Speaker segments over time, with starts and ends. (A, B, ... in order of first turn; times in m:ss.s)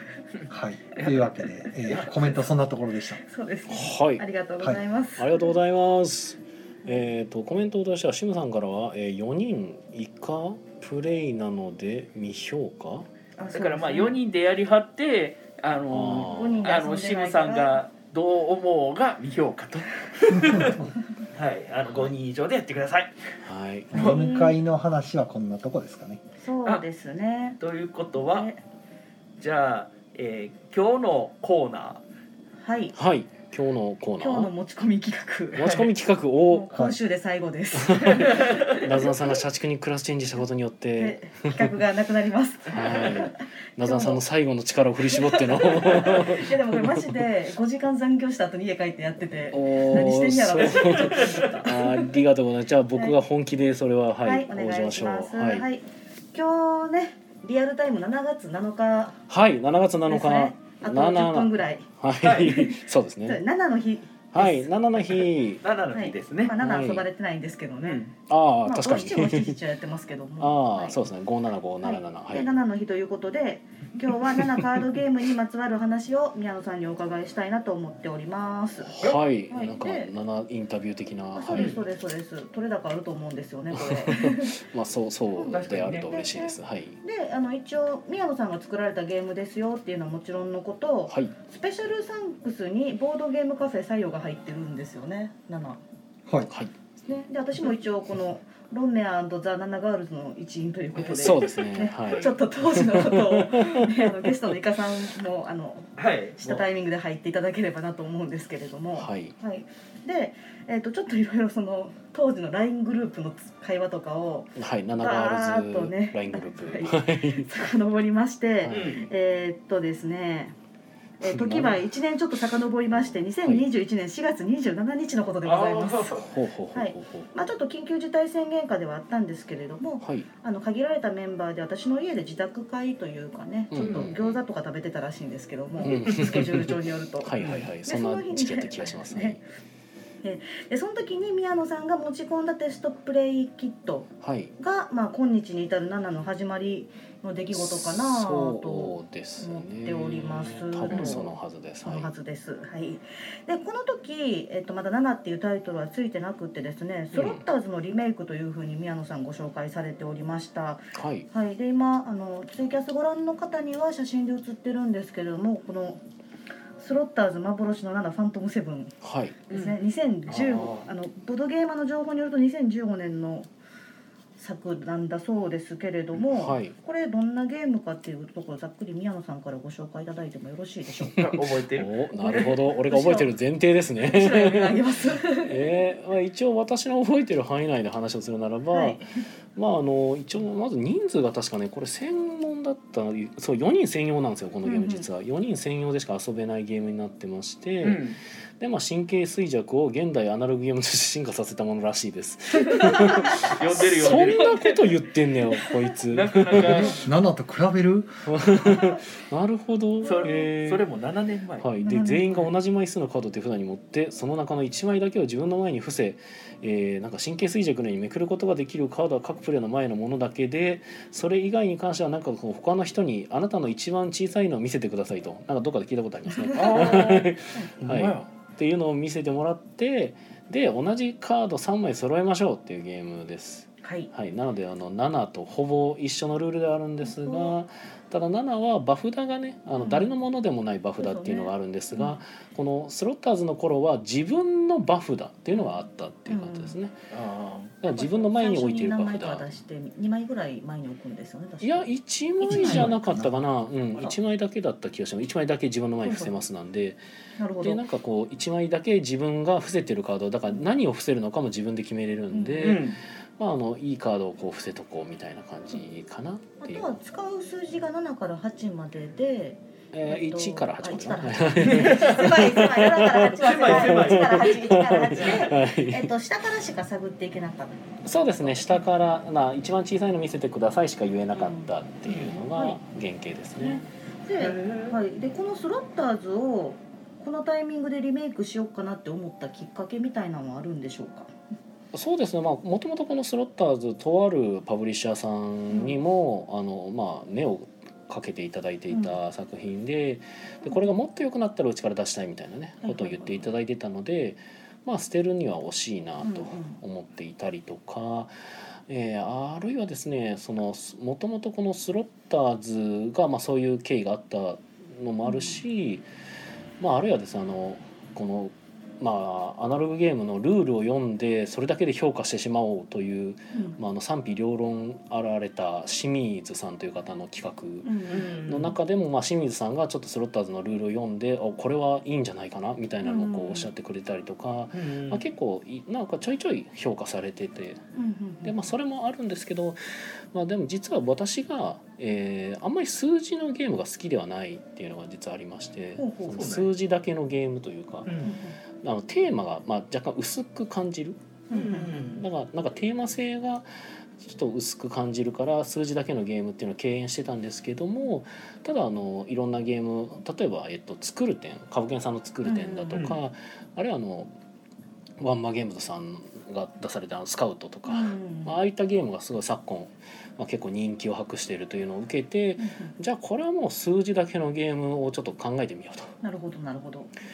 0:00.5-0:03.2 A
0:01.9-0:02.4 B
0:03.2-0:05.5 C
0:03.7-0:04.2 D
0:05.2-0:13.1 D
0:13.4-0:14.2 C
0:13.5-0:23.2 B
0:15.9-0:16.7 D
0:16.1-0:17.8 C
0:20.3-0:20.9 A
0:23.4-0:24.0 D
0:23.9-0:26.2 A
0:23.9-0:24.3 B
0:23.9-0:24.5 C
0:26.4-0:27.6 C
0:27.6-0:28.5 B
0:28.2-0:28.6 C
0:29.4-0:32.0 B
0:32.6-0:33.0 C
0:32.9-0:34.5 D
0:34.2-0:35.8 C
0:35.5-0:36.7 D
0:35.6-0:35.9 B
0:36.5-0:39.1 C
0:36.7-0:37.0 A
0:37.8-0:41.7 D
0:38.2-0:38.7 B
0:41.0-0:44.2 C
0:42.7-0:47.1 D
0:45.1-0:52.1 C
0:49.5-0:55.6 D
0:50.7-0:51.6 B
0:54.2-0:59.2 C
0:59.3-1:03.4 D
1:00.1-1:01.9 C
1:02.2-1:02.7 B
1:02.4-1:04.6 C
1:04.3-1:05.6 D
1:05.2-1:06.5 B
1:05.9-1:08.1 C
1:06.6-1:07.0 D
1:07.8-1:08.1 B
1:08.3-1:09.6 D
1:08.6-1:11.0 C
1:10.4-1:12.5 D
1:11.8-1:20.1 C
1:18.8-1:21.8 D
1:21.3-1:24.6 C
1:21.5-1:21.8 B
1:23.7-1:27.0 D
1:25.4-1:35.8 C
1:25.4-1:26.1 B
1:31.1-1:31.3 D
1:37.0-2:00.6 C
1:40.9-1:44.3 D
1:46.0-1:46.6 B
1:48.9-1:49.4 D
1:54.6-1:57.5 D
1:58.6-1:59.0 D
1:58.7-1:59.1 B
2:01.2-2:06.1 C
2:01.2-2:01.8 D
2:02.9-2:03.6 D
2:05.4-2:06.3 B
2:06.1-2:07.3 D
2:06.7-2:19.4 C
2:10.0-2:10.3 D
2:13.7-2:14.4 D
2:13.8-2:14.1 B
2:15.8-2:19.4 D
2:17.4-2:17.6 B
2:20.2-2:46.0 C
2:24.2-2:24.5 D
2:27.5-2:32.1 D
2:30.9-2:31.1 B
2:37.1-2:37.4 D
2:40.9-2:41.3 D
2:46.8-2:49.0 C
2:49.0-2:49.4 D
2:49.5-2:53.5 C
2:49.5-2:49.8 B
2:50.3-2:50.8 B
2:54.4-3:01.3 C
2:56.2-2:56.7 D
3:01.0-3:04.8 D
3:01.1-3:02.0 B
3:02.1-3:03.3 C
3:04.0-3:05.6 C
3:05.4-3:09.0 D
3:08.7-3:09.0 C
3:09.6-3:18.0 D
3:14.6-3:15.1 C
3:17.8-3:18.2 B
3:18.6-3:27.0 D
3:22.8-3:23.1 C
3:22.9-3:25.0 B
3:26.1-3:27.0 B
3:26.7-3:28.6 A
3:28.3-3:30.8 D
3:30.0-3:31.7 B
3:31.6-4:06.9 D
3:31.8-3:32.5 C
3:46.5-3:47.7 C
3:46.5-3:47.3 B
3:47.8-3:48.2 B
3:53.8-3:54.1 C
3:57.1-3:57.5 C
3:59.8-4:00.1 C
4:01.0-4:02.2 C
4:06.3-4:06.7 C
4:07.1-4:07.7 B
4:07.8-4:09.5 D
4:07.8-4:13.1 C
4:11.6-4:17.0 D
4:12.5-4:12.9 B
4:12.7-4:13.4 A
4:16.0-4:16.3 C
4:17.4-4:17.8 C
4:17.6-4:26.9 D
4:22.3-4:22.8 C
4:22.6-4:23.0 B
4:26.6-4:37.8 C
4:29.9-4:36.1 D
4:31.6-4:35.6 B
4:38.0-4:43.8 D
4:38.4-4:38.8 C
4:41.3-4:42.8 C
4:43.6-4:51.3 C
4:44.4-4:45.0 B
4:51.9-5:08.3 D
4:55.7-4:56.0 C
4:58.9-4:59.2 C
5:02.8-5:03.4 C
5:06.2-5:06.8 C
5:08.9-5:16.0 D
5:15.2-5:15.6 C
5:16.8-5:37.8 D
5:23.5-5:23.8 C
5:27.8-5:28.3 C
5:28.1-5:28.7 B
5:33.0-5:33.7 C
5:34.7-5:35.2 B
5:37.9-5:38.6 C
5:38.4-5:48.1 D
5:46.0-5:46.5 C
5:46.3-5:46.7 B
5:48.1-5:48.3 B
5:48.2-5:48.6 C
5:48.8-5:51.2 D
5:51.5-5:51.9 C
5:51.5-5:52.2 B
5:52.1-5:53.6 D
5:54.2-6:04.3 D
6:02.4-6:03.0 C
6:05.2-6:16.1 D
6:07.9-6:08.6 C
6:12.6-6:12.9 C
6:16.2-6:17.1 C